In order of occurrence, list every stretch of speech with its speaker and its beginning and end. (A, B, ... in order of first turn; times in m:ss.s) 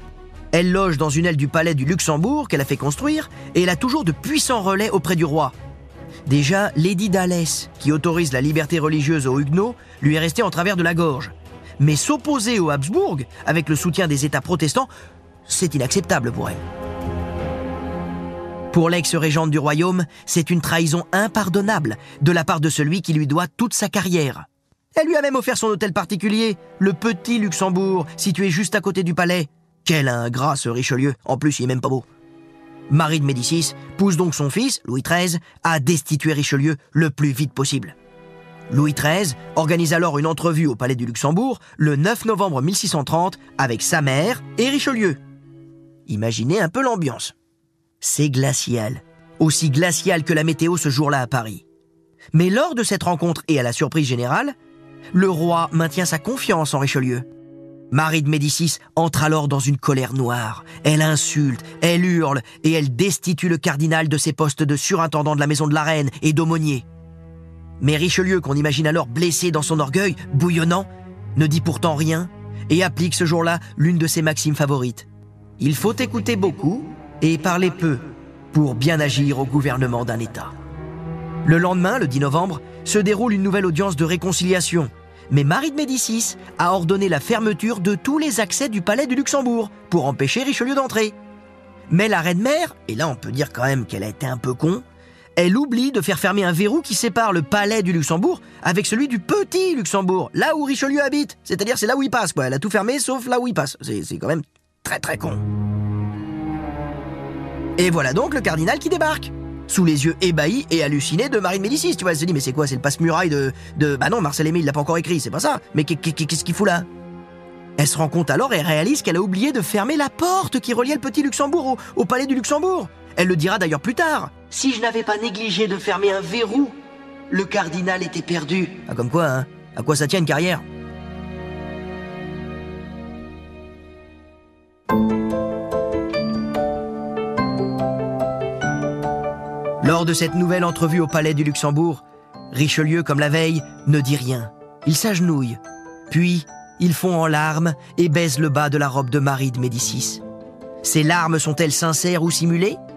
0:00.5-0:05.5 A
0:06.3-0:14.9 A
0:15.5-0:16.6 A
0:18.7-0:32.0 A
0:32.9-0:38.0 A
0:38.7-0:45.2 A
0:46.1-0:47.3 A
0:48.0-0:51.6 A
0:52.3-0:54.6 A
0:55.1-0:57.3 A
0:57.9-1:06.8 A
1:07.8-1:15.1 A
1:15.6-1:20.5 A
1:21.4-1:31.2 A
1:31.9-1:34.8 A
1:35.4-1:45.4 A
1:47.8-1:56.9 A
1:57.8-2:06.8 A
2:07.3-2:10.6 A
2:19.8-2:30.2 A
2:30.8-2:32.8 A